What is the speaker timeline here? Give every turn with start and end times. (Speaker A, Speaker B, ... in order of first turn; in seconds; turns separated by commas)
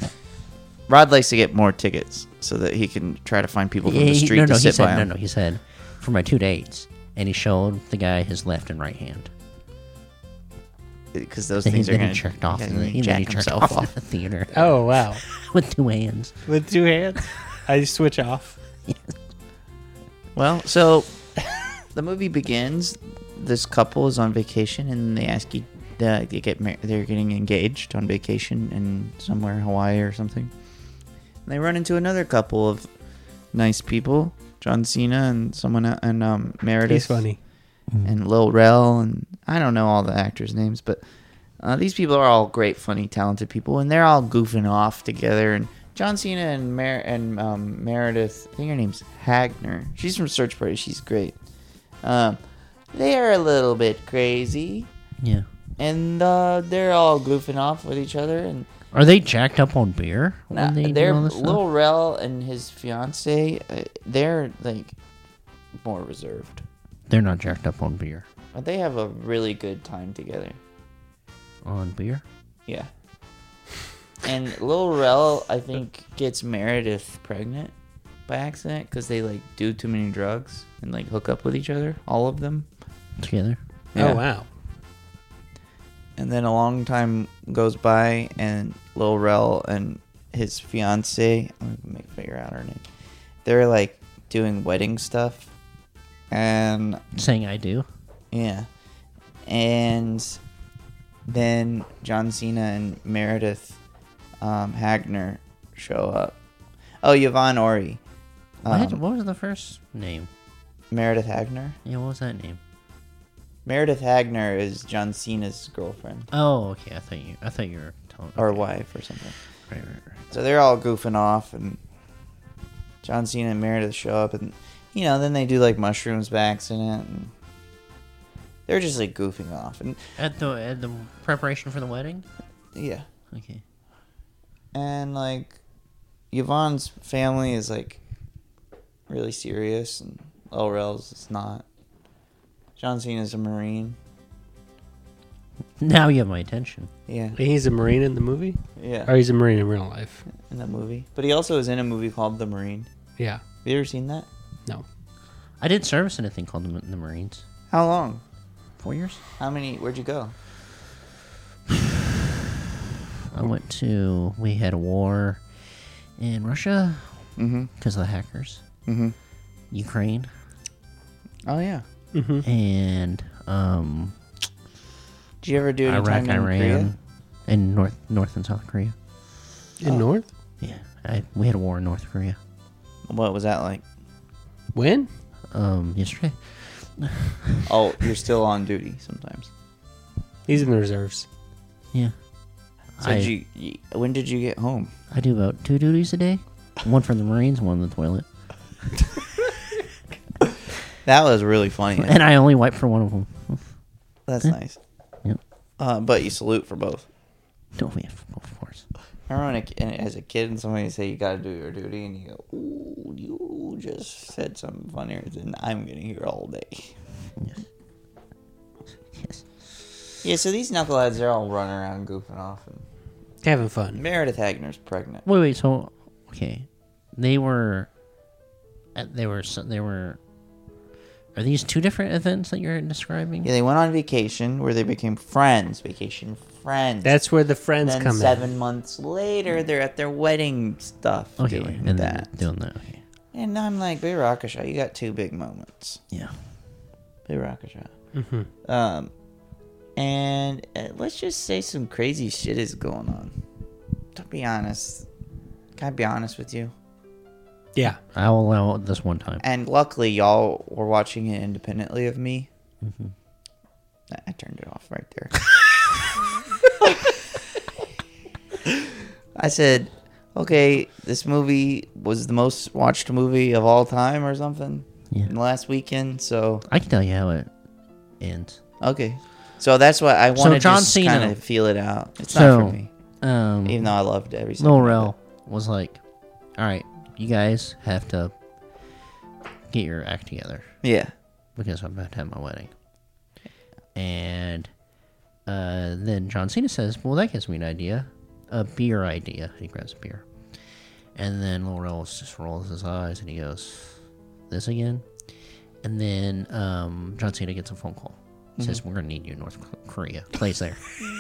Speaker A: 0.9-5.1, Speaker B: 3.8-9.3, Speaker A: 11.1-13.9, Speaker B: 11.6-16.4, Speaker C: 14.5-15.2, Speaker C: 16.5-18.6, Speaker B: 18.9-19.1, Speaker A: 20.4-21.1, Speaker A: 21.9-30.5, Speaker A: 31.5-32.9, Speaker A: 33.5-37.3, Speaker C: 36.9-37.4, Speaker A: 38.0-41.0, Speaker A: 41.6-51.4, Speaker A: 52.0-52.4, Speaker A: 52.9-54.9, Speaker B: 55.2-55.5, Speaker A: 55.8-58.7, Speaker B: 58.9-61.6, Speaker A: 60.5-65.0, Speaker A: 65.8-66.7, Speaker B: 67.1-68.3, Speaker A: 68.5-70.6, Speaker B: 71.6-72.2, Speaker A: 74.2-77.7, Speaker A: 78.3-82.7, Speaker B: 83.2-83.6, Speaker A: 84.0-84.2, Speaker C: 84.0-84.5, Speaker A: 86.2-92.8, Speaker A: 93.5-95.5, Speaker A: 96.3-97.0, Speaker B: 97.2-97.9, Speaker A: 98.3-98.7, Speaker A: 99.5-100.4, Speaker A: 101.3-103.8, Speaker A: 104.4-106.3, Speaker A: 107.0-108.0, Speaker A: 108.6-109.0, Speaker B: 108.7-110.3, Speaker A: 110.9-111.8, Speaker B: 111.8-112.6, Speaker A: 113.7-116.3, Speaker B: 116.3-118.7, Speaker A: 118.4-119.4, Speaker B: 119.7-120.2, Speaker A: 120.3-121.8, Speaker A: 123.0-127.3, Speaker A: 128.7-130.0, Speaker B: 130.2-132.3, Speaker A: 132.8-133.1, Speaker B: 133.3-133.6, Speaker A: 134.7-135.6, Speaker A: 136.3-138.0, Speaker A: 139.1-141.7, Speaker A: 142.8-144.0, Speaker B: 145.8-146.9, Speaker A: 147.1-147.4, Speaker C: 147.4-150.3, Speaker A: 148.8-149.1, Speaker A: 150.3-152.9, Speaker A: 153.6-154.3, Speaker B: 155.6-157.4, Speaker A: 157.7-158.2, Speaker B: 158.8-159.2, Speaker A: 159.4-160.3, Speaker B: 163.3-165.4, Speaker B: 166.2-167.3, Speaker A: 167.4-167.7, Speaker B: 167.8-168.6, Speaker A: 168.9-169.2, Speaker B: 169.7-170.3, Speaker A: 171.5-171.8, Speaker C: 172.1-172.5, Speaker B: 172.4-174.2, Speaker A: 175.4-176.9, Speaker B: 175.9-178.9, Speaker C: 179.8-180.3, Speaker B: 180.6-182.4, Speaker A: 183.1-183.8, Speaker C: 184.7-185.1, Speaker B: 185.5-187.7, Speaker A: 187.7-189.5, Speaker C: 190.5-191.3, Speaker B: 193.0-193.3, Speaker A: 193.0-194.9, Speaker B: 195.1-198.3, Speaker A: 201.1-202.2, Speaker B: 202.0-203.7, Speaker A: 204.3-204.8, Speaker A: 205.8-207.1, Speaker B: 207.8-208.9, Speaker A: 209.3-217.0, Speaker B: 217.4-217.6, Speaker B: 219.2-220.0, Speaker A: 220.2-222.8, Speaker C: 223.4-224.0, Speaker A: 223.9-225.2, Speaker B: 225.2-227.9, Speaker B: 228.9-230.2, Speaker B: 231.3-233.5, Speaker A: 233.4-237.2, Speaker C: 237.0-238.5, Speaker A: 237.8-242.3, Speaker B: 241.4-243.0, Speaker A: 243.3-246.0, Speaker A: 247.3-247.9, Speaker C: 248.1-248.5, Speaker A: 248.7-249.1, Speaker A: 250.0-253.4, Speaker A: 254.2-255.1, Speaker A: 255.8-256.7, Speaker B: 258.1-259.4, Speaker A: 259.4-262.5, Speaker B: 262.8-263.1, Speaker A: 264.1-265.4, Speaker A: 266.8-267.2, Speaker A: 269.4-276.6, Speaker B: 276.7-277.5, Speaker B: 278.2-278.6, Speaker A: 278.8-282.9, Speaker B: 280.4-281.4, Speaker B: 282.3-283.8, Speaker A: 283.6-285.1, Speaker B: 284.6-286.0, Speaker B: 286.6-288.3, Speaker B: 289.7-290.7, Speaker A: 290.8-291.1, Speaker B: 291.6-292.7, Speaker B: 293.9-294.7, Speaker B: 295.5-300.3, Speaker B: 301.1-305.1, Speaker B: 305.8-310.9, Speaker A: 308.6-308.8